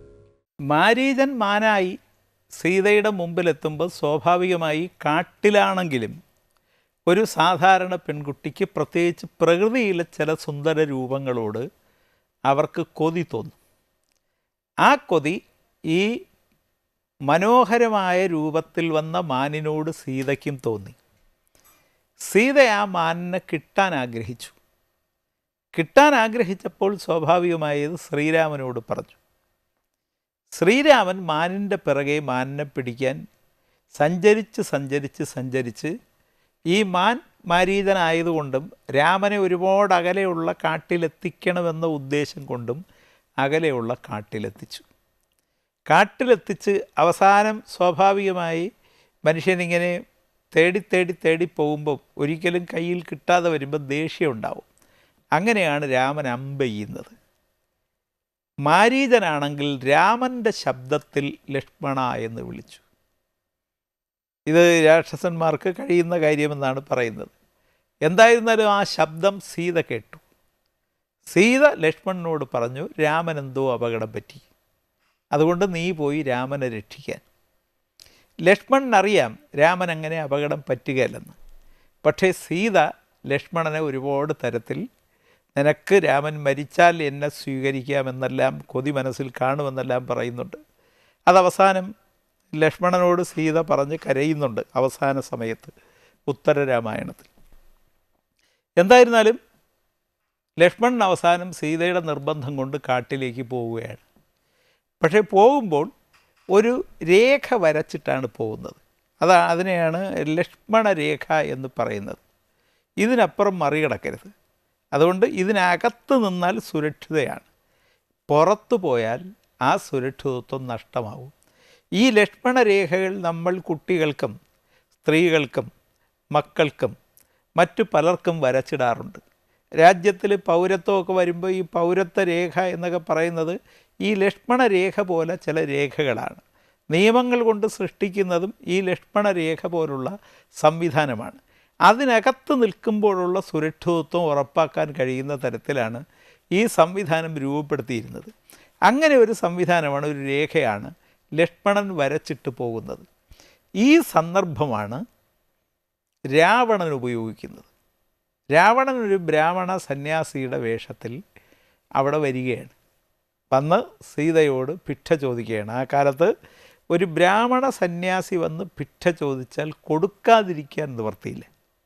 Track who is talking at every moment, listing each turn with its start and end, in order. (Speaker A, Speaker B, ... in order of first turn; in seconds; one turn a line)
Speaker A: 0.7-2.0
Speaker A: 2.5-6.2
Speaker A: 7.1-11.6
Speaker A: 12.5-13.6
Speaker A: 14.8-15.4
Speaker A: 17.3-21.0
Speaker A: 22.3-24.6
Speaker A: 25.7-29.2
Speaker A: 30.5-33.2
Speaker A: 33.9-35.9
Speaker A: 36.7-42.8
Speaker A: 43.4-44.9
Speaker A: 45.9-48.7
Speaker A: 49.3-50.0
Speaker A: 50.5-54.7
Speaker A: 55.4-57.1
Speaker A: 58.7-62.8
Speaker A: 64.5-67.3
Speaker A: 68.0-70.2
Speaker A: 71.3-74.5
Speaker A: 75.3-77.2
Speaker A: 78.5-81.4
Speaker A: 82.0-84.8
Speaker A: 85.6-90.6
Speaker A: 91.3-91.9
Speaker A: 92.6-95.8
Speaker A: 96.3-97.3
Speaker A: 98.8-99.4
Speaker A: 100.6-104.0
Speaker A: 105.0-105.9
Speaker A: 106.5-112.2
Speaker A: 113.0-114.3
Speaker A: 114.9-117.5
Speaker A: 118.3-121.3
Speaker A: 122.0-124.3
Speaker A: 125.0-125.7
Speaker A: 126.4-127.0
Speaker A: 127.6-129.2
Speaker A: 129.8-146.0
Speaker A: 146.6-148.3
Speaker A: 148.9-153.1
Speaker A: 153.8-155.0
Speaker A: 156.4-157.7
Speaker A: 158.6-161.1
Speaker A: 162.0-162.8
Speaker A: 163.5-166.3
Speaker A: 166.9-171.5